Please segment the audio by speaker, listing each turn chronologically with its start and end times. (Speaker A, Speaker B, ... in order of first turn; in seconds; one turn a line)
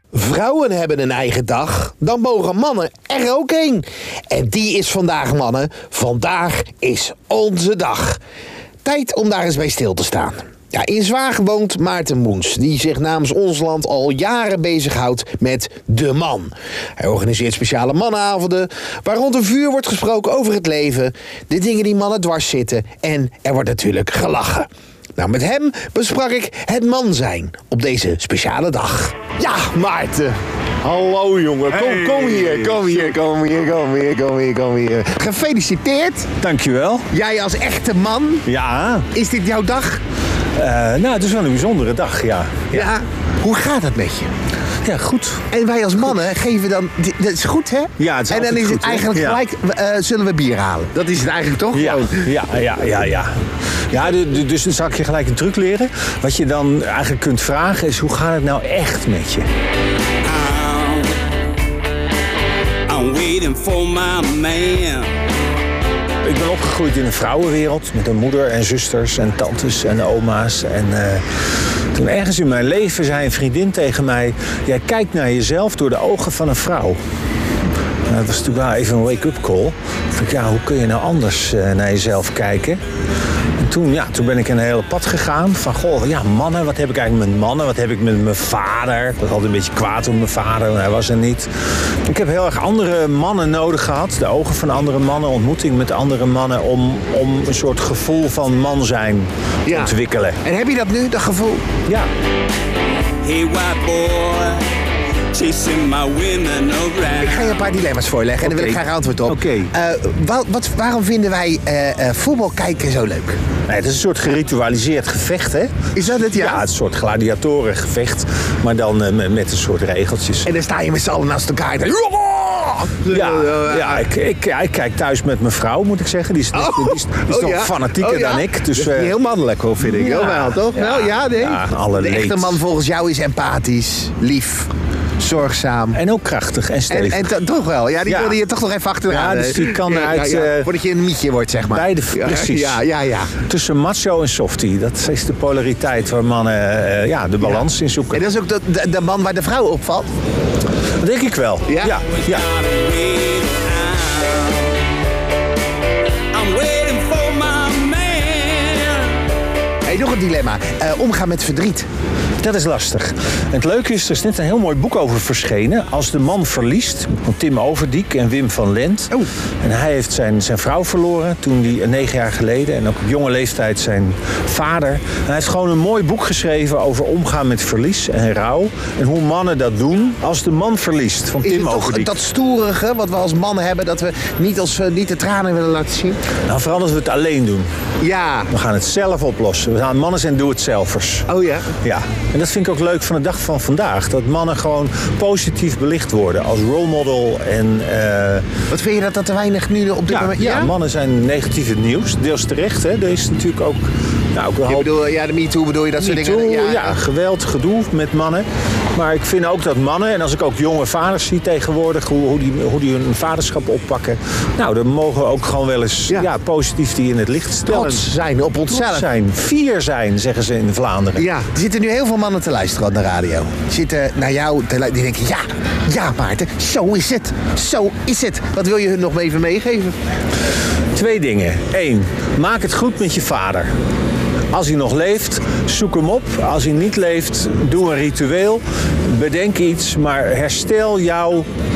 Speaker A: 0.1-8.2
Speaker A: 8.8-30.4
Speaker B: 30.8-33.1
Speaker A: 31.6-36.3
Speaker B: 36.4-37.1
Speaker A: 37.1-38.4
Speaker B: 38.5-39.1
Speaker A: 39.1-40.0
Speaker B: 40.6-42.9
Speaker A: 42.7-44.3
Speaker B: 44.8-45.5
Speaker A: 45.5-52.3
Speaker B: 48.0-49.4
Speaker B: 51.7-53.3
Speaker B: 53.9-59.5
Speaker C: 60.2-61.2
Speaker C: 62.9-65.1
Speaker B: 66.2-71.2
Speaker B: 71.9-77.0
Speaker B: 78.1-82.8
Speaker B: 83.6-100.4
Speaker A: 99.7-101.7
Speaker C: 103.2-104.7
Speaker C: 105.3-107.7
Speaker A: 107.2-113.4
Speaker B: 108.4-109.7
Speaker B: 113.7-120.5
Speaker A: 116.0-116.6
Speaker A: 120.5-124.1
Speaker B: 123.1-129.2
Speaker A: 126.5-136.0
Speaker B: 129.8-132.6
Speaker B: 135.9-137.3
Speaker A: 136.9-143.3
Speaker B: 138.1-138.4
Speaker B: 139.1-140.7
Speaker B: 141.7-142.8
Speaker B: 143.4-148.2
Speaker A: 147.4-150.1
Speaker B: 151.0-152.5
Speaker A: 151.7-151.9
Speaker C: 152.2-154.7
Speaker C: 156.3-159.2
Speaker A: 159.8-161.9
Speaker B: 162.4-182.2
Speaker A: 181.4-186.2
Speaker B: 186.5-187.7
Speaker A: 188.0-188.5
Speaker B: 188.5-191.3
Speaker A: 191.3-191.7
Speaker B: 191.8-198.5
Speaker A: 198.7-200.7
Speaker B: 200.1-204.9
Speaker A: 204.7-207.0
Speaker B: 206.0-218.1
Speaker A: 217.7-219.1
Speaker B: 218.7-221.3
Speaker A: 221.2-230.0
Speaker B: 230.9-233.7
Speaker B: 234.5-241.5